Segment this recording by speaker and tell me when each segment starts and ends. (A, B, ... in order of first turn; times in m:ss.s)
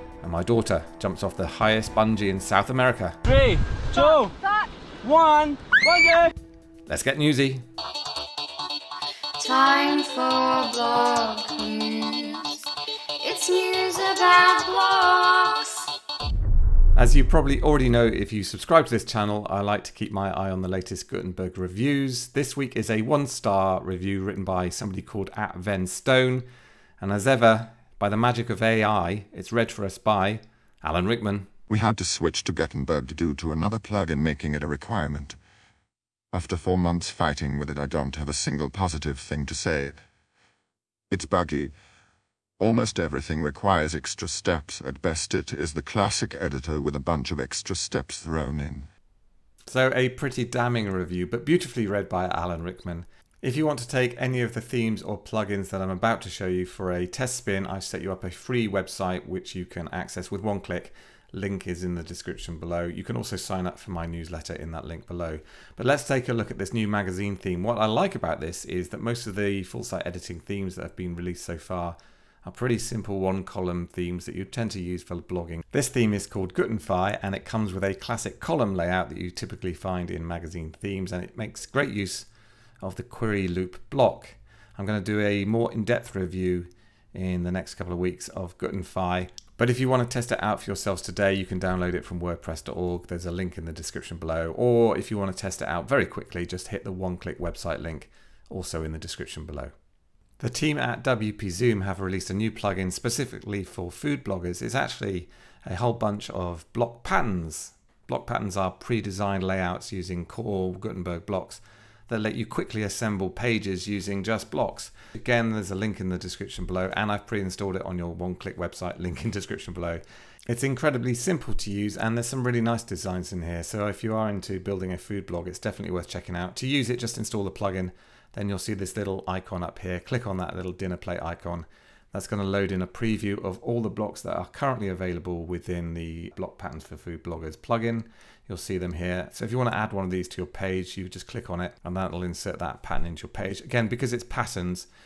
0:00.2-0:03.2 A
0:03.3-0:04.4 B
0:05.0-0:06.3 B
0:06.9-0:07.6 A
0:09.4-0:12.6 C
0:13.2-0:15.9 C
0:17.0-0:26.5 A
0:27.0-0:31.5 A
0:31.7-0:35.4 D
0:36.3-0:40.0 D
0:41.1-0:41.7 D
0:42.6-0:48.9 D
0:49.7-1:22.3 A
1:22.8-1:39.7 A
1:40.4-2:24.9 A